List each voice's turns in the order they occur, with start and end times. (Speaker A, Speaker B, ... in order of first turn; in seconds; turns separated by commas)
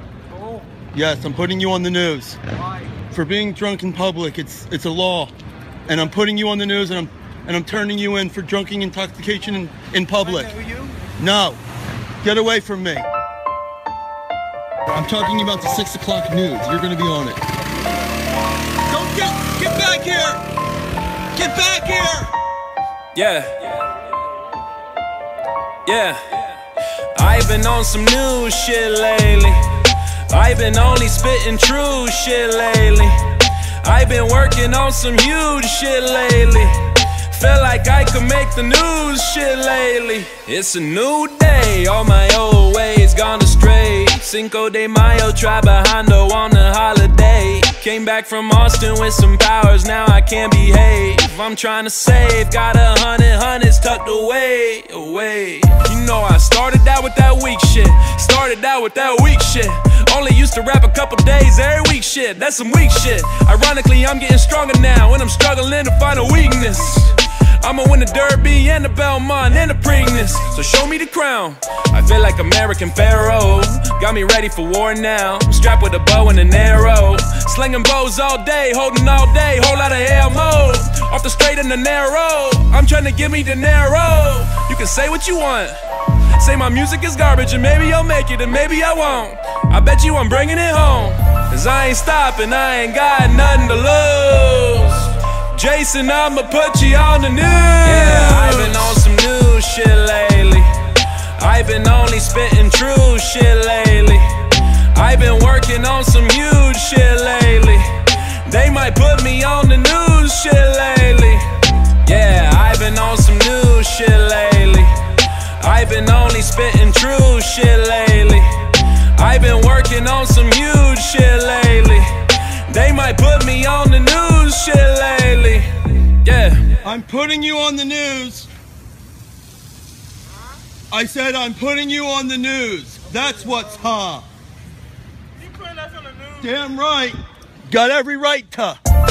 Speaker A: 0.9-2.4, Speaker A: 3.1-5.3, Speaker A: 5.9-11.6, Speaker B: 10.6-10.9, Speaker A: 12.2-13.1, Speaker A: 14.9-17.4, Speaker A: 18.9-20.4, Speaker A: 21.3-22.3, Speaker C: 23.1-23.5, Speaker C: 25.9-26.4, Speaker C: 27.1-29.6, Speaker C: 30.3-33.2, Speaker C: 33.8-85.7, Speaker C: 86.4-100.7, Speaker B: 97.7-99.0, Speaker C: 101.4-104.3, Speaker C: 104.9-111.5, Speaker C: 112.0-115.0, Speaker C: 115.6-118.5, Speaker C: 119.2-122.1, Speaker C: 122.7-125.7, Speaker C: 126.2-126.7, Speaker A: 126.8-128.5, Speaker A: 130.9-134.2, Speaker B: 135.5-136.1, Speaker A: 136.4-138.8